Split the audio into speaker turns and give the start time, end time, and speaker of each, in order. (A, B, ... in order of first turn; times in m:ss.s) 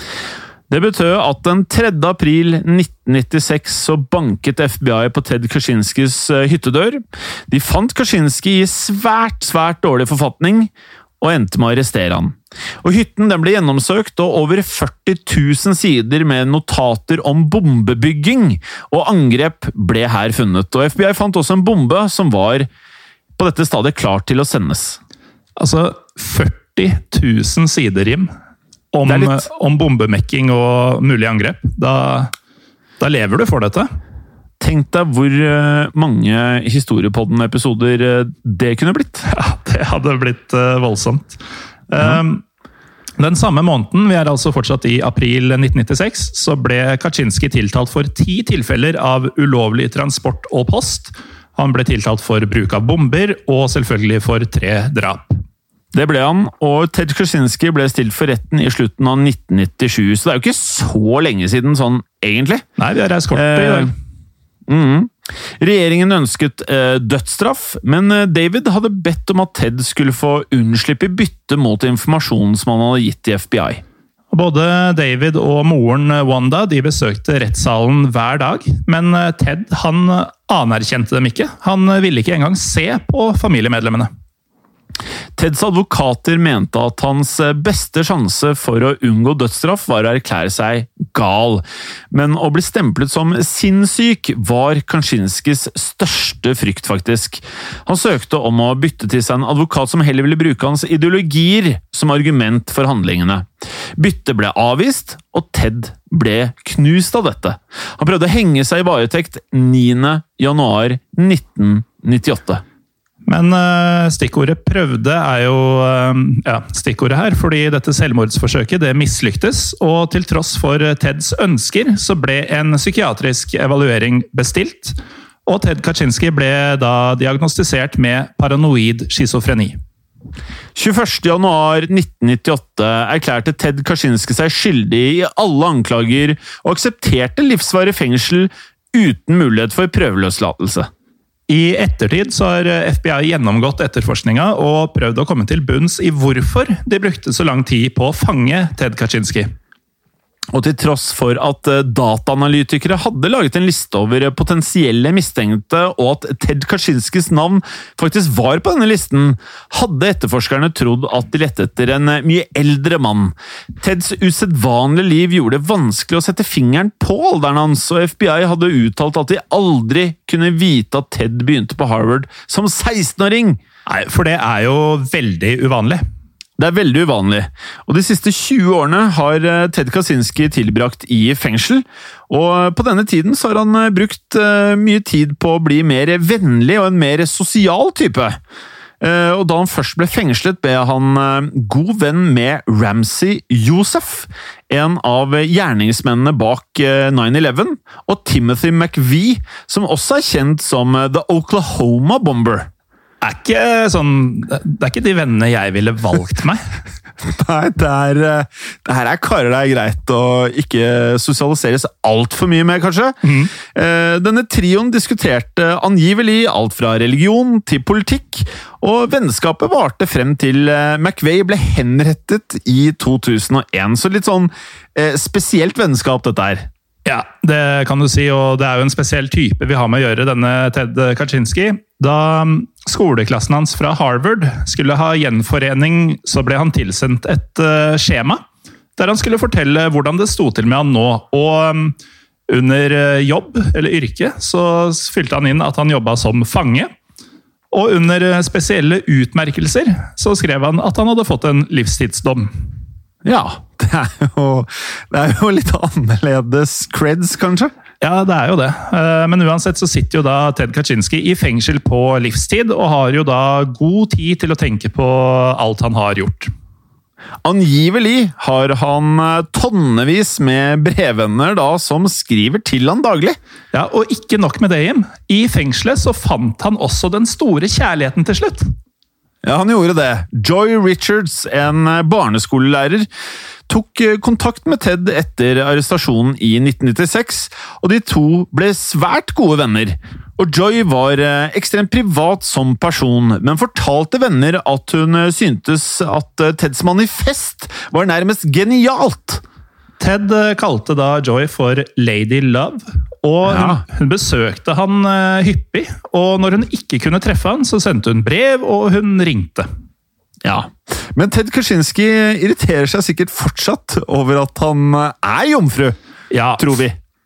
0:00.7-0:22.7 A
0:23.4-0:25.0 A
0:25.6-0:28.3 B
0:28.9-0:32.3 B
0:29.0-0:29.4 A
0:33.0-0:33.9 B
0:34.6-0:39.2 A
0:39.2-0:41.4 B
0:41.9-0:42.4 B
0:42.0-0:42.2 A
0:43.2-0:55.4 B
0:55.9-1:02.6 A
1:02.8-1:03.9 B
1:03.3-1:03.9 A
1:04.7-1:13.8 A
1:14.3-1:24.1 B
1:25.4-1:52.6 A
1:53.2-2:09.8 B
2:10.7-2:20.9 A
2:21.5-2:29.5 B
2:30.5-2:53.6 A
2:53.9-2:56.0 B
2:56.6-3:08.4 A
3:09.0-3:22.7 A
3:23.2-3:26.6 B
3:27.2-3:46.7 A
3:33.2-3:33.5 B
3:47.0-3:58.4 B
3:59.0-4:01.9 B
4:02.5-4:06.9 B
4:07.7-4:12.5 B
4:13.2-4:17.7 A
4:18.0-4:26.5 B
4:27.4-4:33.4 A
4:33.7-4:38.7 B
4:39.4-4:43.1 A
4:43.7-4:59.4 A
5:00.0-5:09.7 B
5:03.5-5:03.8 A
5:10.4-5:16.0 A
5:16.3-5:16.8 B
5:16.6-5:17.0 A